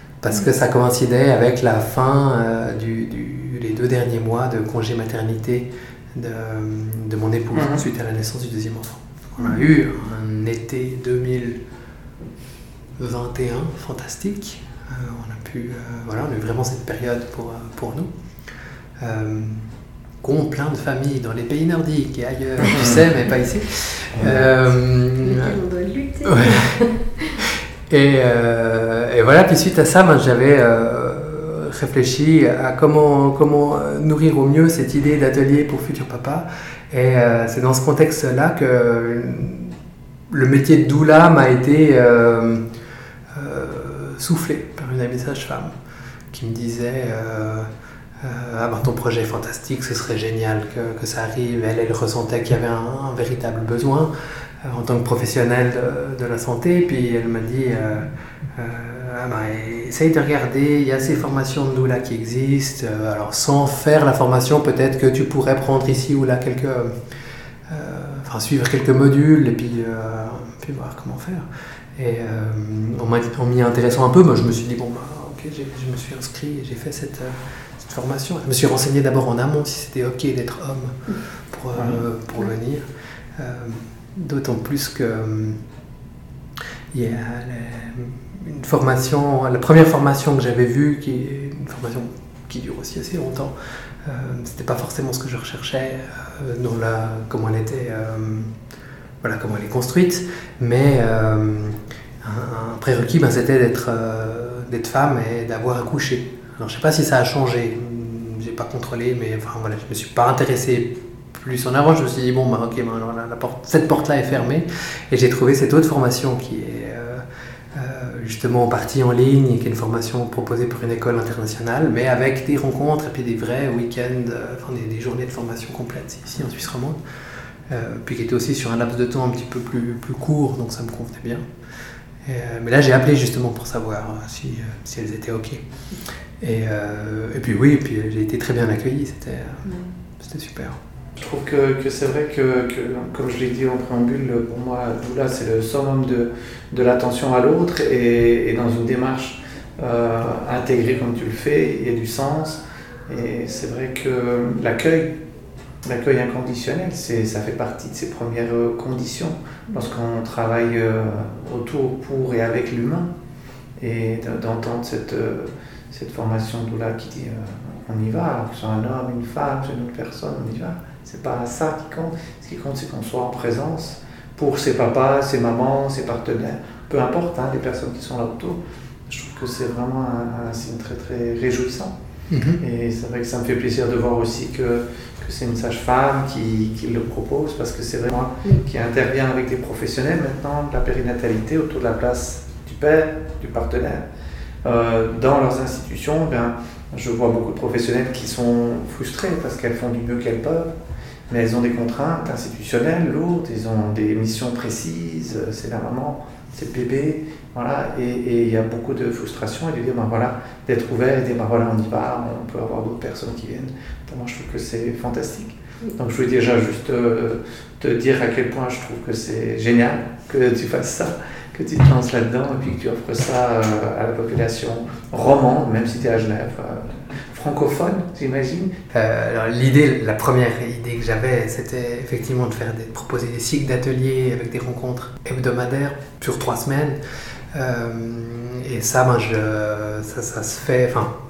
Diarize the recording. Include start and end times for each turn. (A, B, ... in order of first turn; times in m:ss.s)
0:00.2-0:11.6 A
0:07.6-0:07.8 B
0:13.0-0:18.1 A
0:19.0-0:25.5 A
0:22.6-0:23.0 B
0:24.1-0:24.4 B
0:25.2-0:27.5 C
0:26.2-0:26.6 A
0:27.9-0:39.8 A
0:40.3-0:42.6 A
0:43.3-0:45.7 A
0:46.3-0:47.7 A
0:48.2-0:54.1 A
0:54.6-1:06.9 A
1:07.7-1:21.0 A
1:21.5-1:25.6 A
1:21.7-1:22.0 B
1:26.9-1:38.5 A
1:39.2-2:07.0 A
2:07.7-2:11.4 A
2:12.2-2:15.6 A
2:16.4-2:19.6 A
2:20.2-2:20.8 A
2:21.2-2:35.2 B
2:35.8-2:43.1 B
2:43.8-3:01.9 B
3:02.3-3:02.6 A
3:02.6-3:14.0 B
3:14.6-3:20.7 B
3:21.3-3:48.8 B
3:48.9-3:57.0 A
3:57.5-4:01.1 A